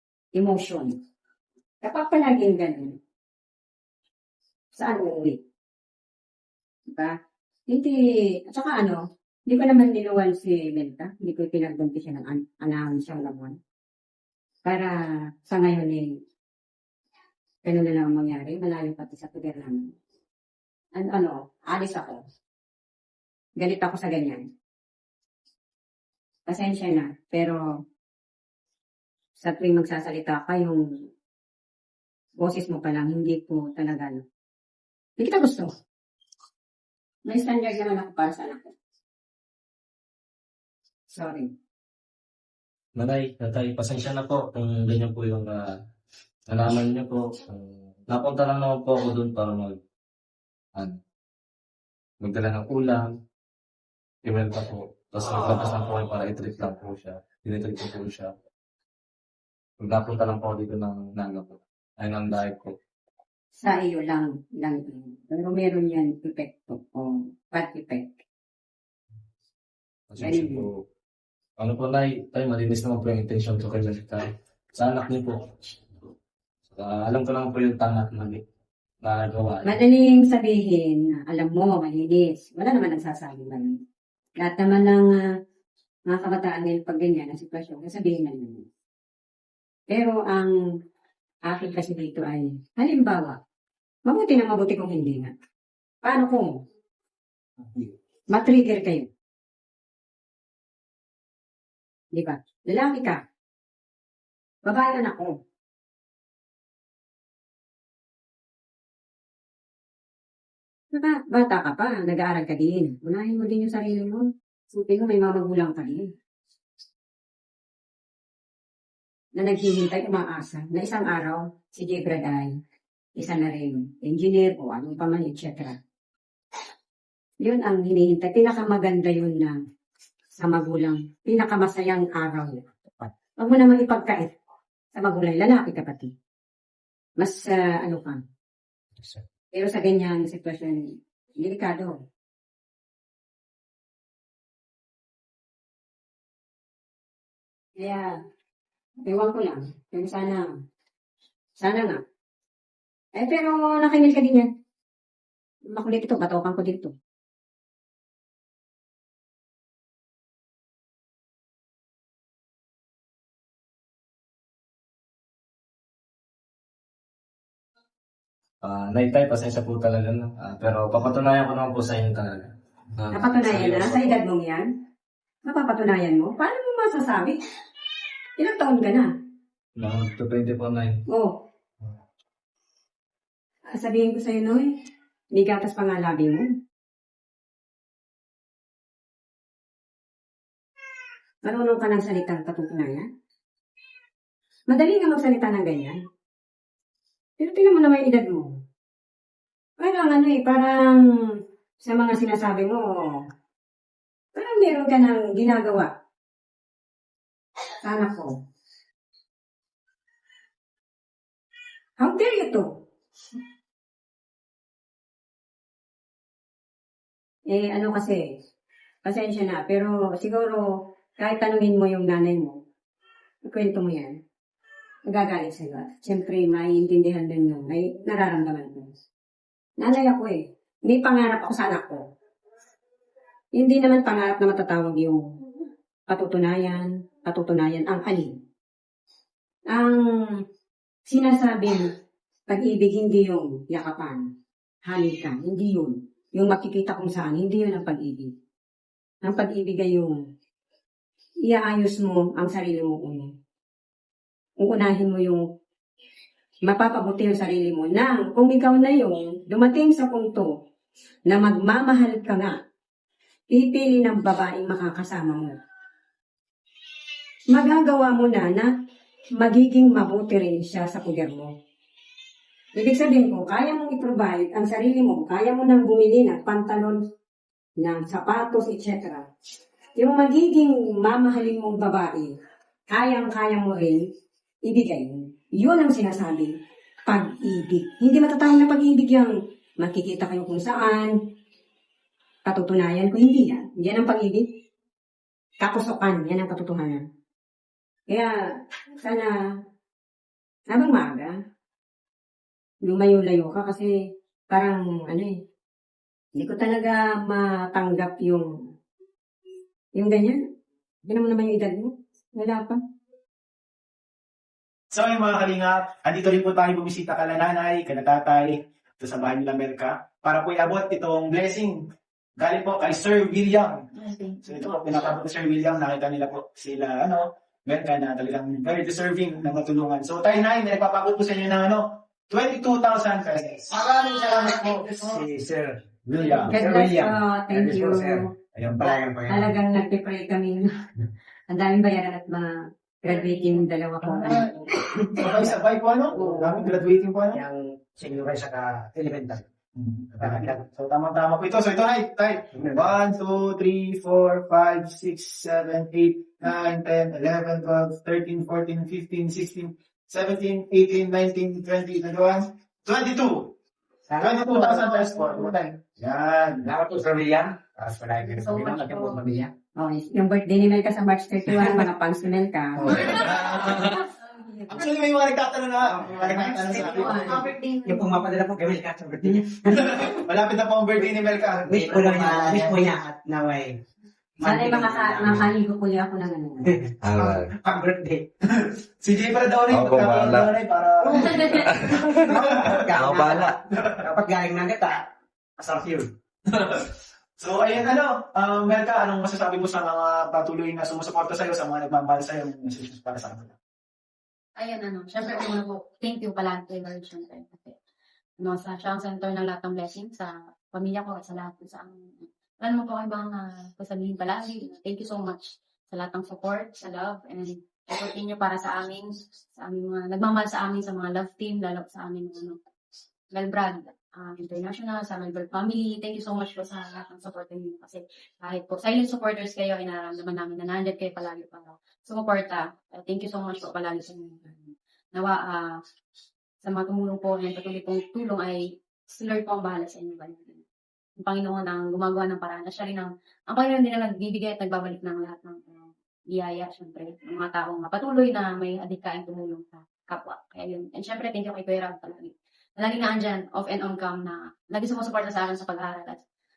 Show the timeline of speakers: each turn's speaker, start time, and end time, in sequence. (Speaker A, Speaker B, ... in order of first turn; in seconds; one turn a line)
Speaker A: 0.3-0.9
Speaker A: 1.8-3.0
Speaker A: 4.8-5.4
Speaker A: 7.7-13.6
Speaker A: 14.7-16.1
Speaker A: 17.6-19.9
Speaker A: 20.9-22.2
Speaker A: 23.6-24.4
Speaker A: 26.5-27.6
Speaker A: 29.4-30.8
Speaker A: 32.4-34.2
Speaker A: 35.2-35.7
Speaker A: 37.2-38.7
Speaker A: 41.1-41.5
Speaker B: 43.0-45.7
Speaker B: 46.5-49.8
Speaker B: 52.2-53.1
Speaker B: 54.2-58.3
Speaker B: 59.8-62.7
Speaker A: 63.6-68.1
Speaker B: 70.1-70.7
Speaker A: 70.2-70.7
Speaker B: 71.6-76.1
Speaker B: 76.7-78.4
Speaker B: 79.0-79.8
Speaker A: 79.6-83.8
Speaker A: 84.4-85.2
Speaker A: 86.1-88.6
Speaker A: 89.9-90.5
Speaker A: 91.5-93.4
Speaker A: 94.0-95.3
Speaker A: 96.0-96.6
Speaker A: 98.3-99.1
Speaker A: 102.1-103.2
Speaker A: 104.6-105.4
Speaker A: 110.9-116.1
Speaker A: 119.4-122.5
Speaker A: 123.2-125.8
Speaker A: 127.4-129.6
Speaker A: 130.4-132.6
Speaker C: 132.9-133.1
Speaker A: 133.4-134.3
Speaker A: 134.9-136.1
Speaker A: 137.2-138.2
Speaker A: 139.5-141.9
Speaker A: 147.8-148.2
Speaker A: 149.0-150.4
Speaker A: 151.6-152.0
Speaker A: 153.2-154.5
Speaker A: 155.7-156.9
Speaker B: 168.6-174.2
Speaker A: 173.1-174.7
Speaker A: 175.4-177.4
Speaker A: 178.4-179.1
Speaker B: 179.8-181.0
Speaker A: 181.1-181.4
Speaker A: 183.7-184.7
Speaker A: 185.3-186.4
Speaker A: 191.4-193.1
Speaker A: 194.7-196.0
Speaker A: 197.4-198.6
Speaker A: 199.8-203.2
Speaker A: 204.3-205.9
Speaker A: 207.8-208.3
Speaker A: 212.0-212.7
Speaker A: 217.5-218.2
Speaker A: 219.0-222.6
Speaker A: 223.4-224.1
Speaker A: 225.1-228.9
Speaker A: 229.8-232.0
Speaker A: 233.6-235.2
Speaker A: 236.1-238.3
Speaker A: 239.7-240.4
Speaker A: 241.1-241.9
Speaker A: 242.5-244.2
Speaker A: 244.8-248.3
Speaker A: 249.2-250.2
Speaker A: 251.5-253.3
Speaker A: 254.6-255.4
Speaker A: 256.6-260.5
Speaker A: 261.3-262.6
Speaker A: 263.5-265.6
Speaker A: 267.5-268.7
Speaker A: 269.4-271.5
Speaker A: 272.8-277.0
Speaker A: 277.8-279.2
Speaker A: 280.0-282.3
Speaker A: 282.9-284.1
Speaker A: 284.6-286.5
Speaker A: 287.1-291.1
Speaker A: 292.4-294.5
Speaker A: 295.6-297.0
Speaker A: 298.1-298.3
Speaker A: 299.0-299.3
Speaker A: 300.7-301.3
Speaker A: 302.8-303.9
Speaker A: 304.5-305.3
Speaker A: 306.4-308.5
Speaker A: 309.9-310.4
Speaker A: 311.0-312.8
Speaker D: 314.9-321.8
Speaker D: 322.4-323.8
Speaker E: 323.9-324.7
Speaker D: 324.4-335.2
Speaker C: 333.9-339.6
Speaker D: 336.1-336.5
Speaker A: 336.5-338.3
Speaker A: 339.3-340.8
Speaker A: 341.5-345.5
Speaker D: 344.1-344.4
Speaker D: 344.9-347.4
Speaker A: 346.1-346.8
Speaker C: 347.3-349.4
Speaker D: 349.8-363.5
Speaker C: 350.2-350.6
Speaker C: 352.6-352.9
Speaker C: 364.1-365.8
Speaker D: 364.2-366.7
Speaker C: 366.6-369.5
Speaker E: 368.3-369.2
Speaker A: 369.8-373.3
Speaker C: 372.8-373.3
Speaker D: 372.9-374.0
Speaker E: 374.0-374.9
Speaker D: 374.7-377.5
Speaker C: 375.8-380.1
Speaker E: 376.9-378.1
Speaker D: 379.6-382.8
Speaker C: 381.6-383.8
Speaker C: 384.4-385.5
Speaker A: 384.4-386.8
Speaker C: 386.6-388.3
Speaker B: 387.0-387.5
Speaker D: 388.5-392.8
Speaker B: 389.7-390.6
Speaker B: 391.5-392.3
Speaker C: 392.2-395.1
Speaker B: 392.9-393.5
Speaker D: 393.7-394.0
Speaker C: 395.6-396.1
Speaker D: 396.5-403.5
Speaker E: 404.6-407.8
Speaker E: 408.4-422.6
Speaker E: 423.3-435.8
Speaker E: 436.6-440.6
Speaker E: 441.2-456.2